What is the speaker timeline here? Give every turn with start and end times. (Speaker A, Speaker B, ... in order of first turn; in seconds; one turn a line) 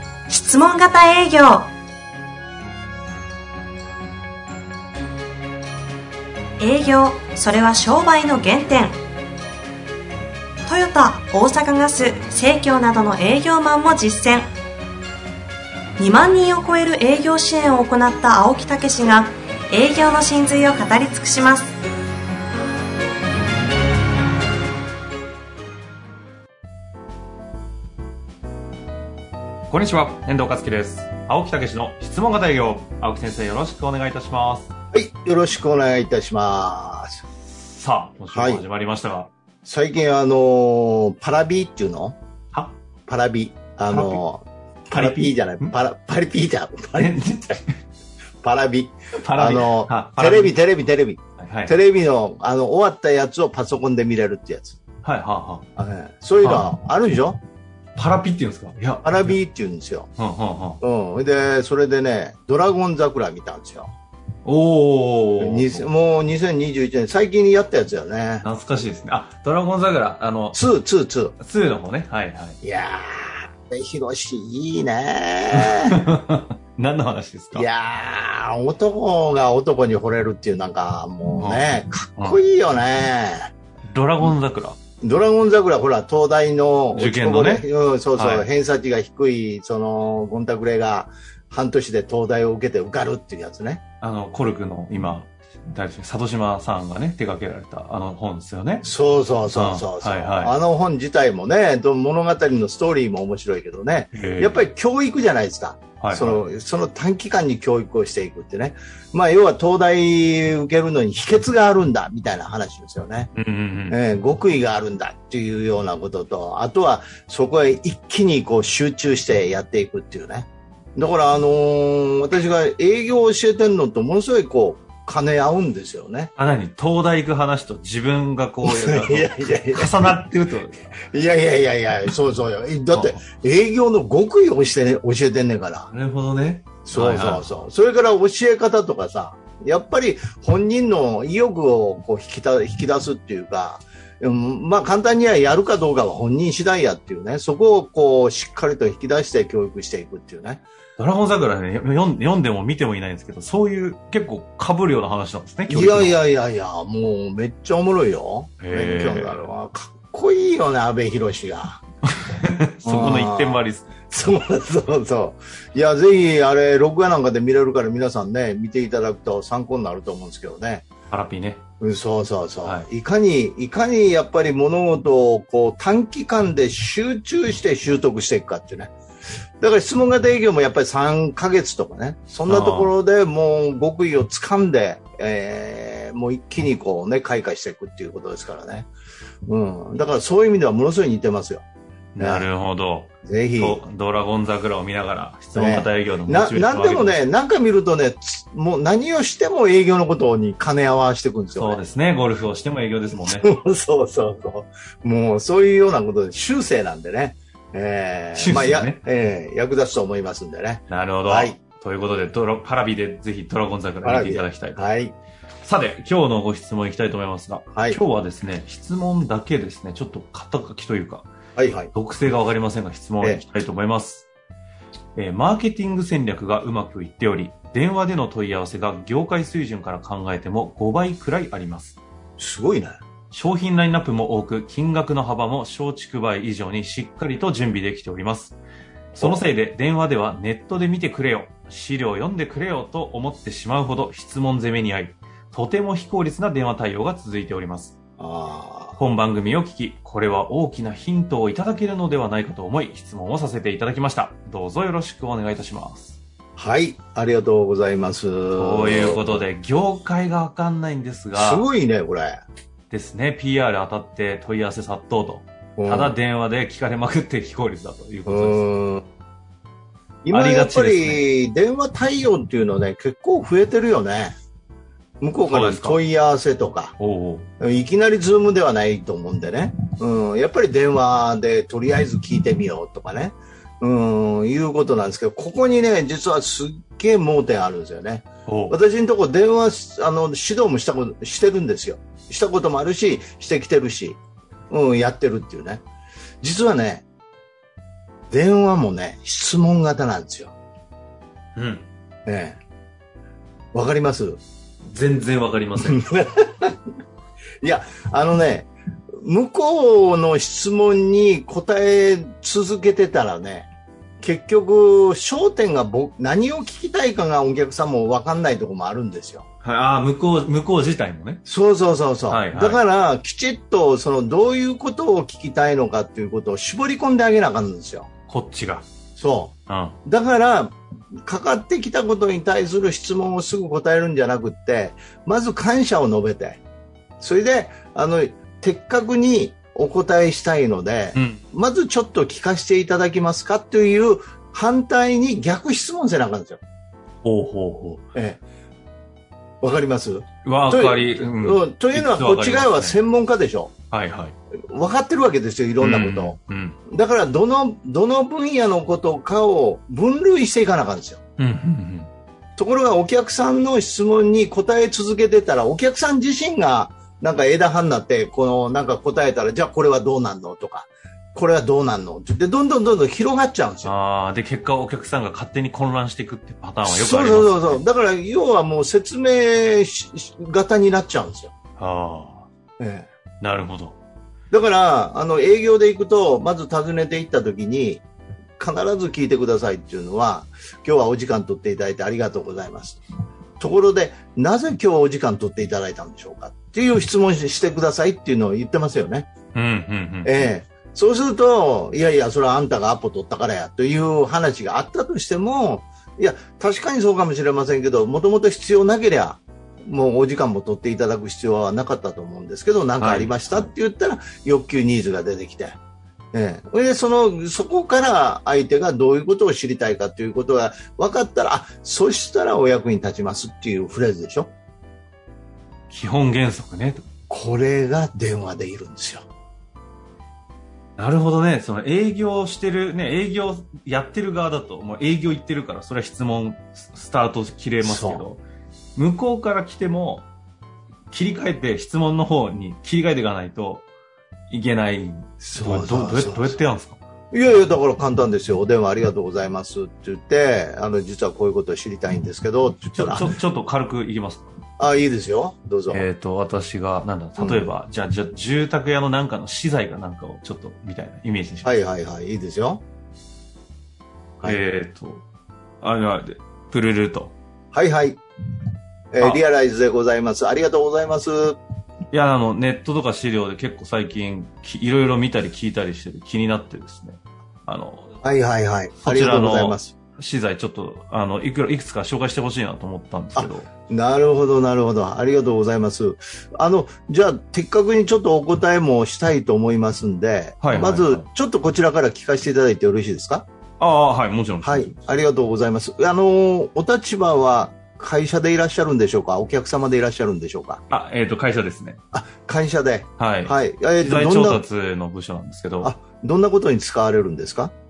Speaker A: 0.3-1.7
Speaker A: 6.6-9.0
Speaker A: 10.7-14.5
Speaker A: 16.0-21.7
Speaker B: 29.7-34.7
Speaker C: 34.9-37.2
Speaker B: 37.5-39.3
Speaker C: 38.3-38.6
Speaker C: 39.6-42.2
Speaker C: 43.0-47.5
Speaker B: 43.9-44.2
Speaker B: 44.9-45.7
Speaker B: 47.0-47.7
Speaker C: 48.4-54.8
Speaker B: 49.2-50.5
Speaker B: 51.4-51.8
Speaker B: 55.0-55.6
Speaker C: 55.8-57.4
Speaker B: 58.0-59.2
Speaker C: 59.0-60.1
Speaker B: 60.2-60.8
Speaker C: 60.8-63.9
Speaker B: 64.4-65.8
Speaker C: 65.4-68.5
Speaker B: 68.4-70.6
Speaker C: 70.5-71.3
Speaker B: 71.4-72.6
Speaker C: 72.6-76.0
Speaker B: 75.9-77.6
Speaker C: 77.5-83.5
Speaker B: 83.9-84.8
Speaker C: 85.0-93.8
Speaker B: 86.9-88.5
Speaker B: 94.0-98.8
Speaker C: 98.8-113.3
Speaker B: 99.5-100.5
Speaker B: 104.1-104.5
Speaker B: 106.0-106.4
Speaker B: 113.3-113.9
Speaker C: 113.9-126.3
Speaker B: 126.3-129.2
Speaker C: 128.6-130.2
Speaker B: 129.8-130.9
Speaker C: 131.0-135.9
Speaker B: 135.9-137.4
Speaker C: 136.8-150.6
Speaker B: 151.0-156.1
Speaker C: 155.7-161.8
Speaker B: 158.6-159.4
Speaker B: 162.5-163.9
Speaker C: 162.8-170.9
Speaker B: 171.1-171.6
Speaker C: 171.8-178.9
Speaker C: 179.6-188.9
Speaker B: 182.5-182.9
Speaker C: 189.4-191.6
Speaker C: 192.2-192.5
Speaker B: 192.3-197.1
Speaker C: 193.2-193.8
Speaker C: 195.5-201.8
Speaker B: 201.6-203.4
Speaker C: 203.2-211.6
Speaker B: 208.3-209.0
Speaker B: 210.9-214.8
Speaker C: 214.0-215.1
Speaker B: 215.6-221.3
Speaker C: 217.7-218.0
Speaker C: 221.6-221.9
Speaker B: 221.9-224.2
Speaker B: 225.2-232.0
Speaker C: 232.4-233.0
Speaker B: 233.3-238.6
Speaker C: 239.1-239.4
Speaker B: 239.2-247.9
Speaker C: 248.2-249.0
Speaker B: 249.0-256.1
Speaker C: 256.6-259.4
Speaker B: 258.6-261.6
Speaker C: 261.3-262.4
Speaker B: 262.9-268.6
Speaker C: 265.8-266.1
Speaker C: 268.2-269.1
Speaker C: 270.2-274.4
Speaker B: 270.3-271.2
Speaker C: 275.2-276.9
Speaker B: 275.5-276.0
Speaker B: 277.0-277.5
Speaker C: 277.6-294.2
Speaker B: 288.5-288.7
Speaker C: 294.7-295.8
Speaker C: 296.4-297.0
Speaker C: 298.3-300.5
Speaker B: 301.6-301.9
Speaker C: 302.2-302.6
Speaker C: 303.7-304.4
Speaker B: 304.9-305.9
Speaker C: 305.7-306.8
Speaker C: 307.6-313.7
Speaker C: 314.2-319.4
Speaker B: 319.6-321.4
Speaker C: 321.4-328.1
Speaker B: 322.3-322.8
Speaker B: 328.3-328.9
Speaker C: 329.1-329.5
Speaker B: 329.7-329.9
Speaker C: 330.0-336.6
Speaker C: 337.2-346.6
Speaker B: 341.1-341.4
Speaker B: 347.2-348.0
Speaker C: 348.1-348.4
Speaker C: 349.6-353.7
Speaker B: 350.4-353.0
Speaker B: 353.9-354.3
Speaker C: 354.7-356.4
Speaker B: 355.8-356.8
Speaker C: 356.9-361.2
Speaker B: 361.4-362.1
Speaker C: 362.6-373.9
Speaker B: 373.9-377.8
Speaker C: 376.9-381.5
Speaker B: 381.8-382.5
Speaker C: 382.8-383.1
Speaker B: 383.4-384.0
Speaker C: 384.5-388.0
Speaker C: 388.6-393.0
Speaker C: 393.6-399.3
Speaker B: 399.5-400.4
Speaker C: 400.2-415.8
Speaker B: 413.0-413.7
Speaker C: 416.3-424.5
Speaker B: 425.9-427.1
Speaker C: 427.3-429.2
Speaker B: 431.0-438.4
Speaker C: 437.8-438.2
Speaker B: 438.9-440.3
Speaker B: 441.1-443.9
Speaker B: 444.5-447.0
Speaker C: 445.4-446.6
Speaker C: 447.3-453.4
Speaker B: 452.9-454.5
Speaker C: 454.8-456.1
Speaker B: 455.9-461.7
Speaker C: 457.4-457.7
Speaker C: 461.6-462.8
Speaker B: 464.4-465.2
Speaker B: 465.8-467.3
Speaker C: 467.7-468.2
Speaker C: 469.1-471.6
Speaker B: 472.1-478.1
Speaker C: 478.2-479.9
Speaker B: 479.0-483.7
Speaker C: 483.4-493.5
Speaker B: 490.6-491.2
Speaker B: 493.8-495.0
Speaker C: 494.6-500.8
Speaker B: 500.9-502.0
Speaker C: 502.1-504.6
Speaker B: 503.2-505.9
Speaker C: 505.8-507.7